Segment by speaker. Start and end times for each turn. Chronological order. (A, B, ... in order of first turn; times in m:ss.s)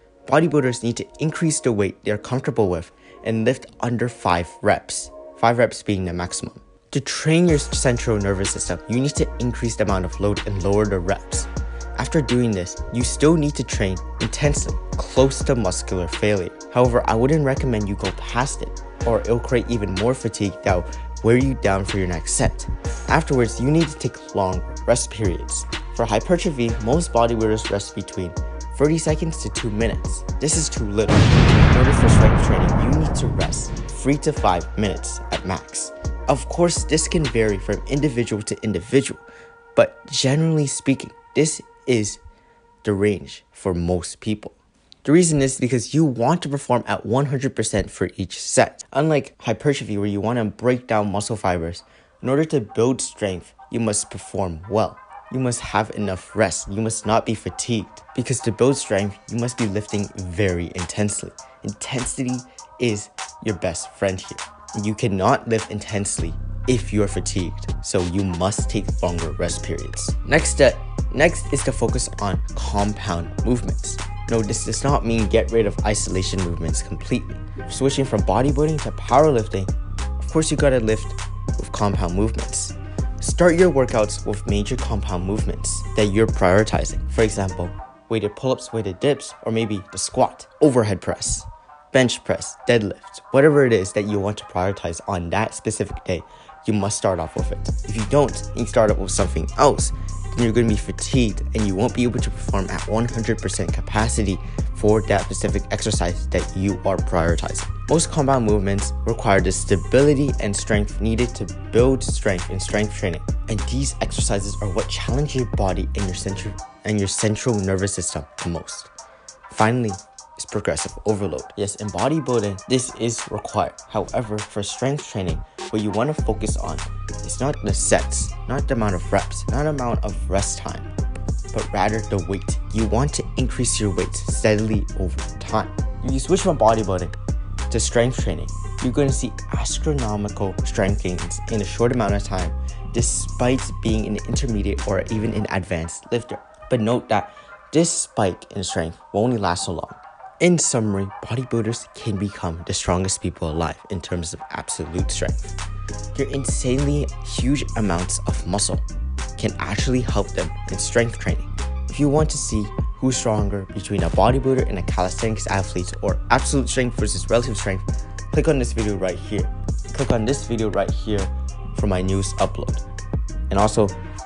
0:00.2-0:39.2 A
0:39.8-0:42.2 A
0:42.8-1:58.9 A
1:59.5-2:10.9 A
2:11.5-2:17.2 A
2:17.7-2:35.6 A
2:36.1-2:38.8 A
2:39.4-2:52.8 A
2:53.5-2:54.0 A